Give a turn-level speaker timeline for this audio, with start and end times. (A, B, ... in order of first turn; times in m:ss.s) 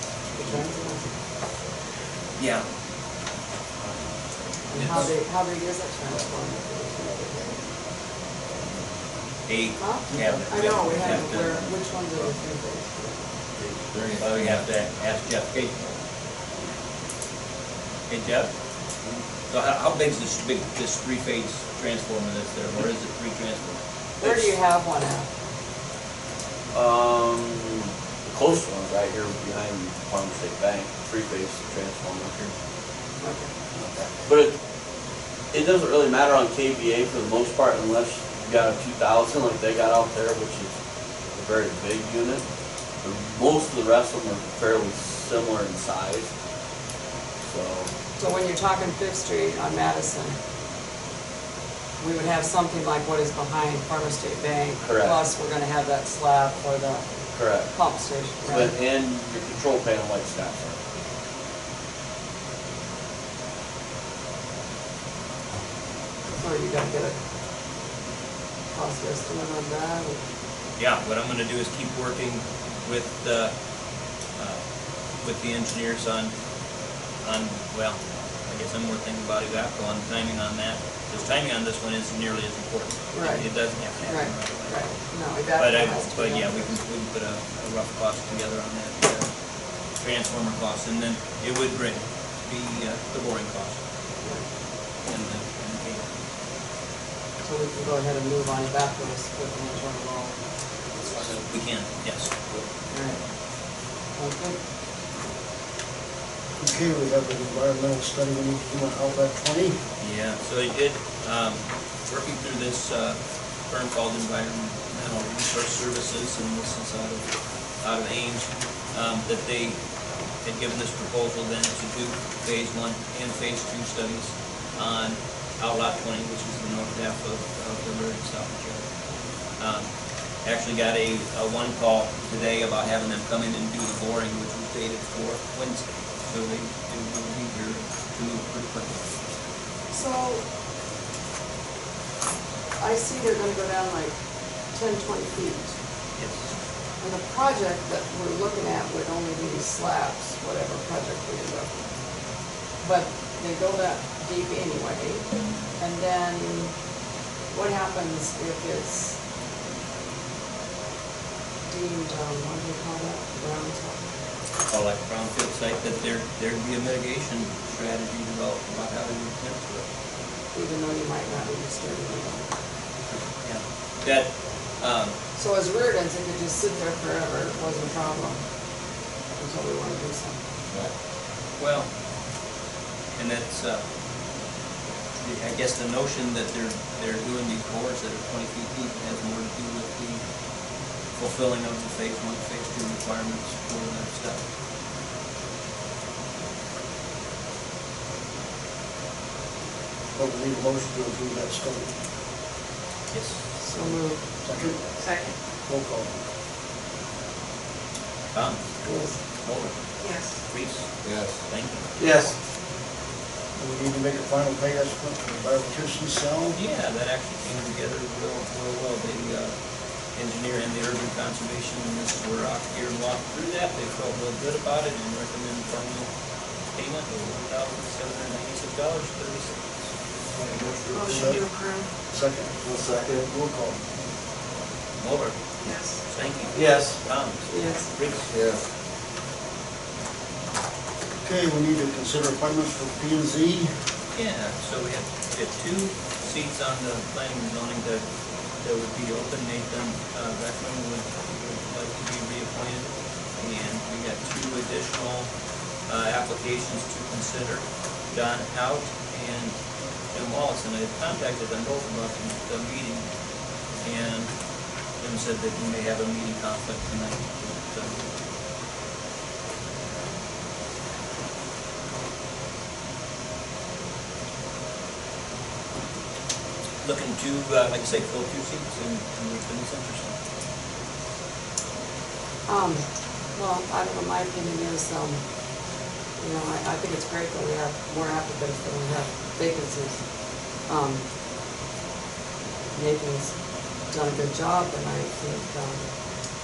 0:00.3-0:01.1 A
0:02.4-0:02.6 B
0:04.7-0:07.6 A
0:04.7-0:05.1 B
0:09.5-0:11.7 B
0:09.8-0:13.2 A
0:13.9-0:14.6 C
0:14.2-0:16.0 B
0:18.1-0:18.5 B
0:19.5-0:24.5 B
0:24.2-0:25.3 A
0:26.7-0:32.5 D
0:33.2-0:33.5 A
0:34.2-0:34.5 D
0:35.5-0:40.7 D
0:41.3-0:42.4 D
0:43.0-0:46.3 D
0:47.4-0:47.9 D
0:48.2-0:50.4 A
0:52.0-0:57.0 A
0:54.8-0:55.2 D
0:57.3-0:57.7 D
0:57.7-0:58.8 A
0:58.4-1:00.8 D
1:06.3-1:07.2 A
1:08.7-1:10.2 A
1:10.8-1:13.5 B
1:14.4-1:14.6 B
1:15.2-1:16.3 B
1:17.2-1:24.9 B
1:23.1-1:23.5 A
1:24.0-1:26.8 A
1:25.5-1:29.3 B
1:30.0-1:33.8 B
1:35.0-1:36.1 B
1:37.4-1:40.4 A
1:41.5-1:42.3 B
1:42.9-1:43.2 A
1:44.2-1:44.6 A
1:46.6-1:49.8 E
1:50.0-1:57.3 B
1:57.8-1:59.8 B
2:00.4-2:08.8 B
2:09.6-2:09.9 B
2:10.4-2:19.0 B
2:19.9-2:20.4 A
2:22.8-2:24.2 A
2:24.7-2:25.8 A
2:26.2-2:26.5 B
2:27.0-2:31.7 A
2:32.8-2:36.7 A
2:37.5-2:39.2 A
2:41.6-2:44.1 A
2:44.7-2:49.9 B
2:50.5-2:52.5 A
2:53.1-2:55.1 B
2:55.4-2:58.4 A
2:59.4-3:00.4 A
3:01.6-3:01.9 B
3:03.1-3:03.8 B
3:05.2-3:10.2 B
3:11.2-3:14.4 B
3:20.1-3:21.9 E
3:23.1-3:23.4 B
3:23.6-3:24.2 A
3:24.4-3:24.8 E
3:25.0-3:25.3 F
3:25.7-3:26.1 E
3:28.3-3:28.8 B
3:28.8-3:29.2 A
3:29.4-3:29.8 B
3:30.0-3:30.3 F
3:30.4-3:31.9 B
3:31.0-3:31.4 C
3:32.0-3:32.3 D
3:33.6-3:36.6 E
3:36.5-3:39.5 B
3:40.1-3:46.1 B
3:46.7-3:49.8 B
3:50.4-3:51.4 E
3:50.5-3:51.2 C
3:50.9-3:51.9 F
3:52.1-3:53.8 E
3:55.0-3:55.4 B
3:55.6-3:56.0 F
3:56.0-3:58.3 B
3:56.6-3:56.9 D
3:57.5-3:57.9 A
3:58.3-3:58.6 C
4:01.2-4:03.7 E
4:04.1-4:08.0 B
4:08.6-4:15.3 B
4:15.9-4:19.6 B
4:20.1-4:23.0 B
4:23.8-4:24.3 B
4:25.0-4:28.1 B
4:36.8-4:40.1 B
4:42.5-4:45.2 A
4:46.2-4:50.0 A
4:50.6-4:51.0 A
4:52.7-4:53.4 A
4:53.9-4:55.9 A